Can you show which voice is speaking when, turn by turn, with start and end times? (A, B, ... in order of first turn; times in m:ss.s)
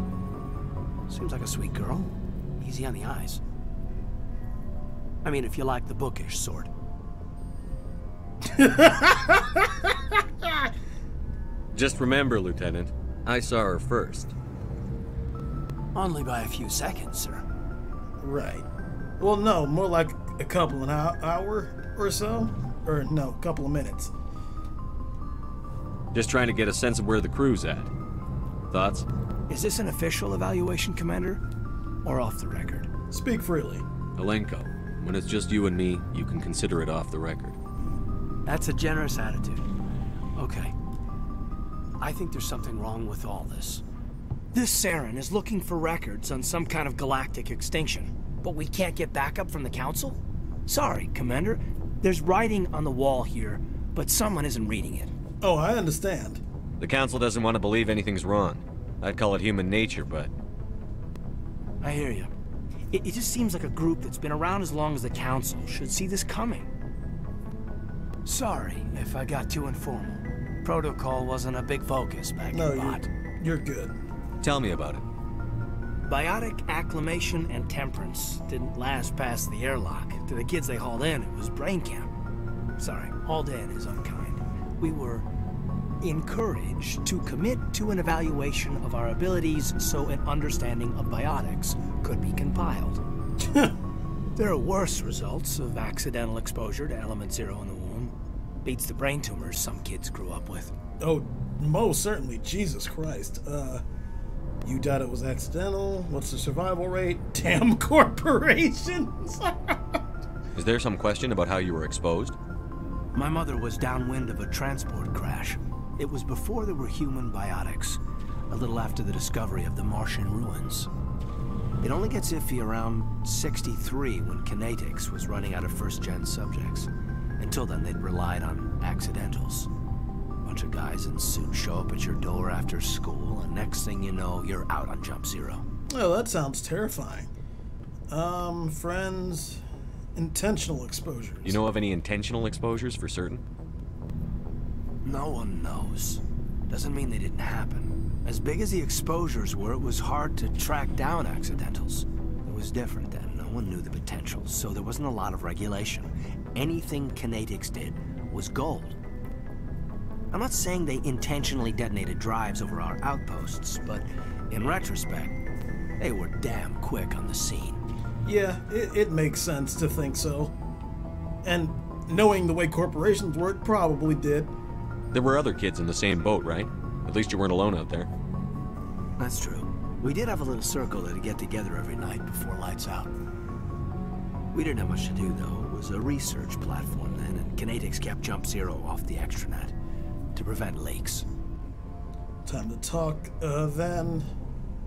0:01.1-0:03.4 A
0:05.2-0:06.7 A
0:08.4-0:10.7 B
0:11.7-0:14.3 C
0:15.9-0:17.4 A
0:18.2-0:18.6 B
0:19.2-0:24.1 B
0:26.1-0:27.9 C
0:28.7-0:29.0 C
0:29.5-0:31.4 A
0:32.0-0:32.9 A
0:33.1-0:33.8 B
0:34.2-0:37.6 C
0:38.4-0:39.6 A
0:40.4-0:40.7 A
0:42.0-0:43.8 A
0:44.5-0:55.1 A
0:55.4-0:56.4 B
0:56.8-1:00.3 C
1:01.8-1:02.3 A
1:02.9-1:06.7 A
1:08.2-1:13.1 A
1:12.5-1:14.0 B
1:14.4-1:15.0 C
1:16.0-1:22.1 A
1:22.8-1:25.2 A
1:26.0-1:33.0 A
1:33.4-1:33.7 B
1:34.4-1:40.7 A
1:41.0-1:43.8 B
1:44.6-1:50.0 B
1:50.5-1:52.4 C
1:53.1-2:00.9 A
2:01.8-2:09.7 A
2:10.4-2:15.6 A
2:15.9-2:17.3 B
2:18.1-2:19.6 B
2:20.2-2:21.6 B
2:21.4-2:23.4 C
2:25.0-2:39.0 A
2:40.3-2:45.4 A
2:46.0-2:47.8 A
2:48.2-2:50.5 B
2:51.4-2:54.5 B
2:55.1-2:58.1 C
2:59.2-3:03.1 A
3:04.5-3:09.7 A
3:10.3-3:11.2 A
3:12.4-3:14.3 B